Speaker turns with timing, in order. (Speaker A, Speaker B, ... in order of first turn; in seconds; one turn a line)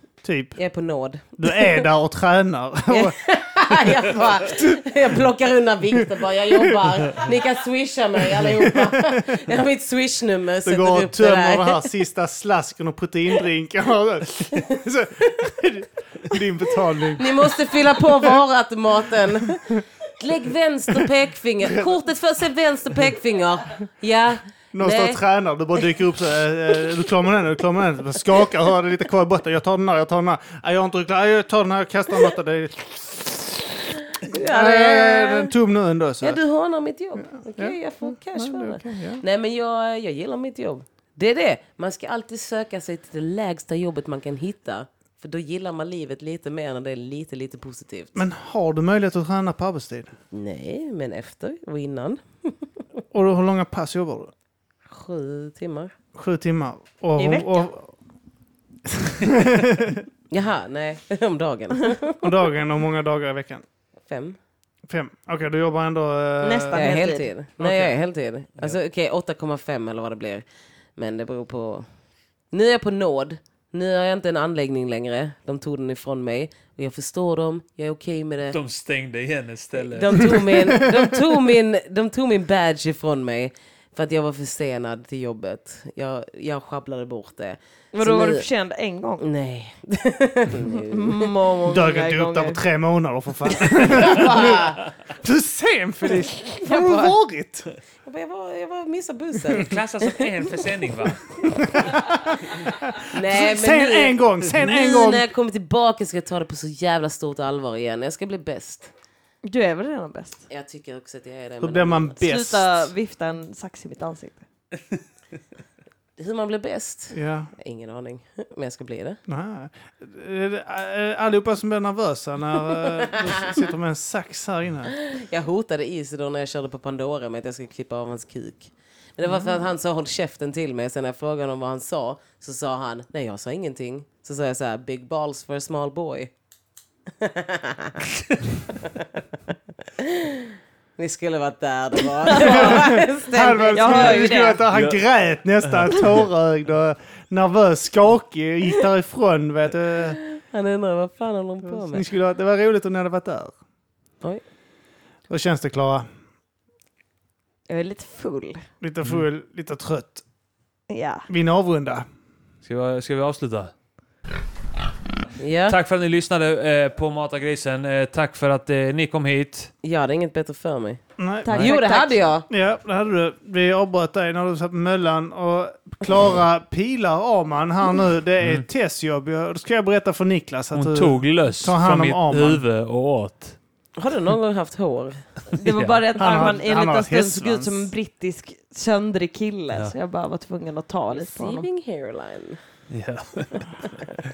Speaker A: 0.2-0.6
Speaker B: 0.6-1.9
Speaker A: 1.4-3.2
Speaker B: 2.9-11.9
Speaker A: 4.5-4.8
Speaker A: 6.6-7.1
Speaker A: 8.4-9.3
Speaker A: 10.7-17.5
Speaker B: 14.6-14.8
Speaker B: 17.1-25.2
Speaker A: 19.4-19.8
Speaker A: 24.7-36.4
Speaker B: 34.2-35.5
Speaker B: 36.2-48.2
Speaker A: 37.2-39.2
Speaker A: 48.1-50.1
Speaker B: 50.3-52.7
Speaker A: 53.1-54.3
Speaker B: 54.9-55.9
Speaker A: 56.1-57.9
Speaker C: 57.2-57.7
Speaker A: 59.0-60.0
Speaker B: 60.3-62.3
Speaker A: 62.2-63.6
Speaker B: 64.1-64.4
Speaker A: 64.9-66.8
Speaker C: 66.4-67.3
Speaker B: 66.7-70.4
Speaker A: 67.6-67.9
Speaker B: 71.0-71.9
Speaker B: 72.5-78.6
Speaker D: 78.5-80.7
Speaker B: 79.8-88.5
Speaker C: 87.9-89.2
Speaker B: 89.2-91.3
Speaker C: 90.9-92.6
Speaker A: 91.7-97.7
Speaker B: 93.6-94.9
Speaker B: 96.6-97.1
Speaker B: 98.0-100.5
Speaker D: 99.5-101.2
Speaker A: 101.4-102.2
Speaker A: 102.8-105.3
Speaker B: 103.1-108.9
Speaker C: 109.4-110.5
Speaker B: 110.5-112.2
Speaker A: 111.6-112.9
Speaker C: 112.2-114.4
Speaker B: 116.2-119.2
Speaker A: 117.1-117.5
Speaker A: 119.3-125.0
Speaker B: 123.0-123.5
Speaker B: 125.0-136.3
Speaker A: 129.3-129.6
Speaker B: 137.2-138.2
Speaker B: 138.8-139.0
Speaker B: 140.0-144.4
Speaker C: 142.3-142.8
Speaker A: 142.3-150.2
Speaker C: 143.7-144.6
Speaker D: 144.7-145.0
Speaker D: 145.7-146.1
Speaker B: 150.1-152.1
Speaker A: 151.6-153.5
Speaker A: 155.3-156.1
Speaker C: 157.7-158.6
Speaker A: 158.8-160.2
Speaker C: 160.9-161.3
Speaker A: 161.3-162.1
Speaker D: 162.6-163.7
Speaker B: 165.4-165.8
Speaker D: 165.7-169.7
Speaker B: 169.8-171.0
Speaker A: 171.2-171.6
Speaker C: 171.4-172.2
Speaker B: 171.6-172.5
Speaker A: 172.5-182.6
Speaker D: 180.7-183.6
Speaker B: 184.0-185.2
Speaker C: 185.5-191.7
Speaker D: 185.6-186.0
Speaker A: 186.2-187.8
Speaker B: 191.1-192.6
Speaker D: 192.9-194.0